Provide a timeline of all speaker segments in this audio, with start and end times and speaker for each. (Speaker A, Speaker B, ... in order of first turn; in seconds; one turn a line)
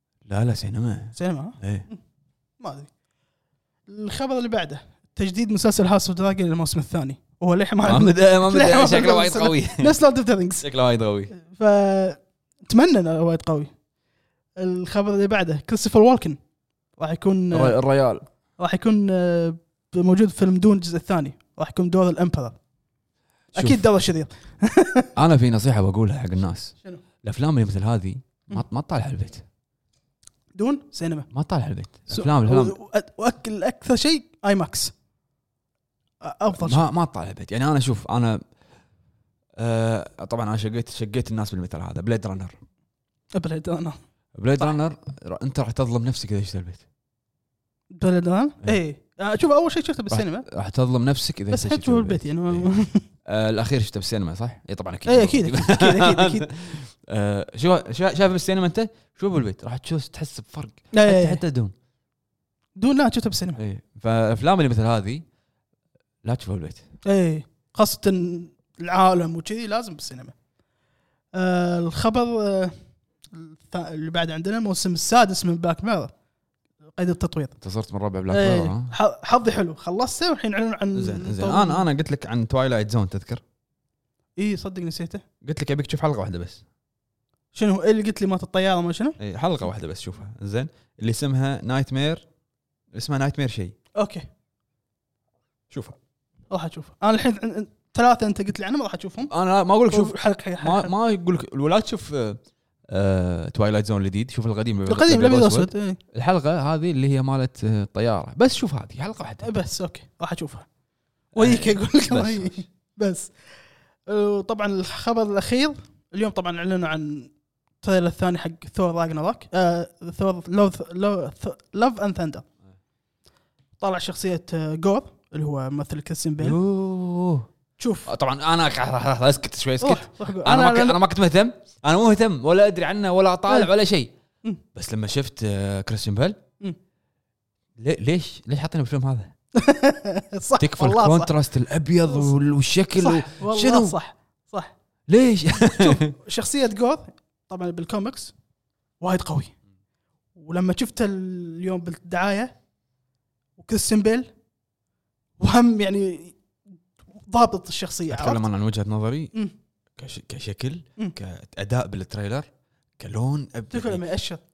Speaker A: 0.2-1.9
Speaker B: 1.1-2.0
Speaker B: 2.6-2.9
Speaker B: 3.9-10.6
Speaker A: 7.8-9.9
Speaker A: 10.6-11.3
Speaker B: 11.3-13.7
Speaker B: 14.6-16.4
Speaker B: 17.0-17.7
Speaker A: 17.5-18.2
Speaker B: 18.6-22.6
Speaker A: 23.5-23.8
Speaker B: 23.5-25.1
Speaker A: 25.1-29.4
Speaker B: 30.5-31.3
Speaker A: 31.3-32.8
Speaker B: 32.1-34.9
Speaker B: 36.2-36.9
Speaker A: 36.5-38.4
Speaker A: 39.6-42.6
Speaker B: 43.3-44.0
Speaker A: 44.3-46.8
Speaker B: 47.9-50.5
Speaker A: 50.1-52.7
Speaker B: 51.5-53.1
Speaker A: 53.2-61.7
Speaker B: 55.0-56.5
Speaker B: 60.9-61.4
Speaker B: 62.8-63.6
Speaker A: 63.5-65.2
Speaker A: 66.2-66.8
Speaker B: 67.0-70.3
Speaker B: 71.3-72.7
Speaker B: 73.3-76.1
Speaker B: 77.0-77.5
Speaker A: 77.6-78.9
Speaker B: 78.3-81.8
Speaker A: 80.9-83.4
Speaker B: 84.4-85.2
Speaker A: 85.4-86.6
Speaker B: 87.5-89.2
Speaker A: 89.2-92.2
Speaker A: 92.9-93.7
Speaker B: 94.0-94.3
Speaker A: 95.7-96.0
Speaker B: 96.5-99.3
Speaker A: 99.3-102.4
Speaker B: 99.9-100.9
Speaker A: 102.9-109.5
Speaker B: 104.9-106.0
Speaker B: 109.4-110.7
Speaker A: 111.3-112.6
Speaker B: 111.3-113.3
Speaker B: 114.1-122.5
Speaker B: 123.8-126.6
Speaker A: 126.4-127.5
Speaker B: 127.8-128.1
Speaker A: 128.1-134.1
Speaker B: 129.8-131.0
Speaker A: 134.7-136.4
Speaker A: 137.8-139.3
Speaker B: 139.5-141.3
Speaker A: 140.6-143.9
Speaker B: 143.0-144.7
Speaker A: 145.1-146.1
Speaker B: 145.7-148.3
Speaker B: 149.0-149.5
Speaker B: 150.4-152.5
Speaker B: 153.6-154.3
Speaker B: 155.4-156.4
Speaker B: 157.3-158.4
Speaker A: 158.1-159.3
Speaker A: 160.0-162.5
Speaker A: 163.0-164.0
Speaker B: 163.7-164.4